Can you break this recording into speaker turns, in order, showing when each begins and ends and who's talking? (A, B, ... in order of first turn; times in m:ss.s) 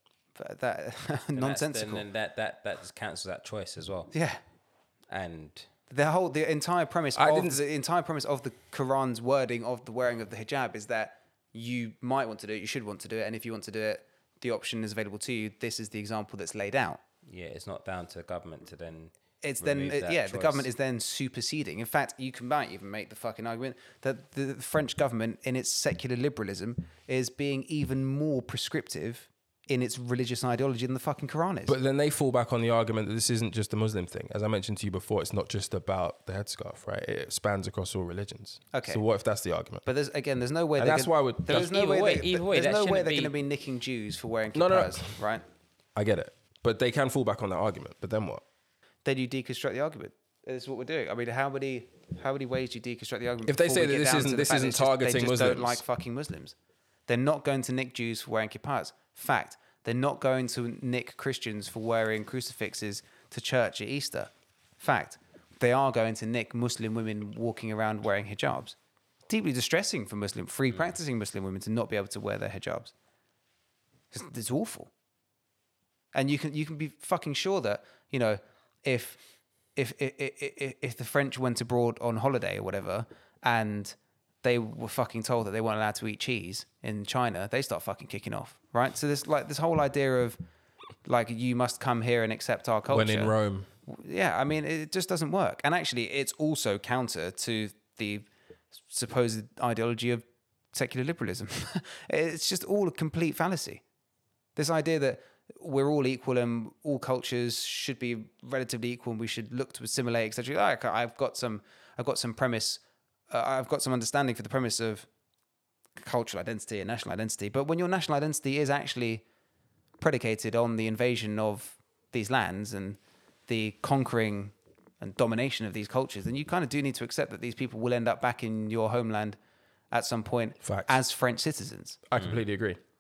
0:00.4-0:02.1 A
0:01.4-0:04.1 B
0:04.1-0:04.4 A
0:05.1-0:05.7 B
0:05.9-0:17.0 A
0:07.2-0:07.6 C
0:17.3-0:20.7 B
0:19.4-0:31.8 A
0:31.7-0:39.8 C
0:38.7-0:39.0 A
0:39.8-0:45.4 A
0:40.8-0:41.7 C
0:41.5-0:43.3 B
0:44.5-0:45.1 C
0:46.0-0:48.4 C
0:49.0-0:56.6 A
0:53.4-0:55.8 C
0:57.1-1:08.8 A
1:09.3-1:12.9 A
1:14.1-1:14.9 A
1:16.1-1:19.2 A
1:19.8-1:30.4 A
1:31.0-1:33.3 A
1:32.9-1:33.7 C
1:33.9-1:38.3 A
1:38.9-1:43.8 A
1:44.6-1:55.1 A
1:56.0-1:59.2 A
2:00.0-2:09.4 A
2:09.9-2:12.0 A
2:10.6-2:11.0 C
2:12.1-2:12.8 C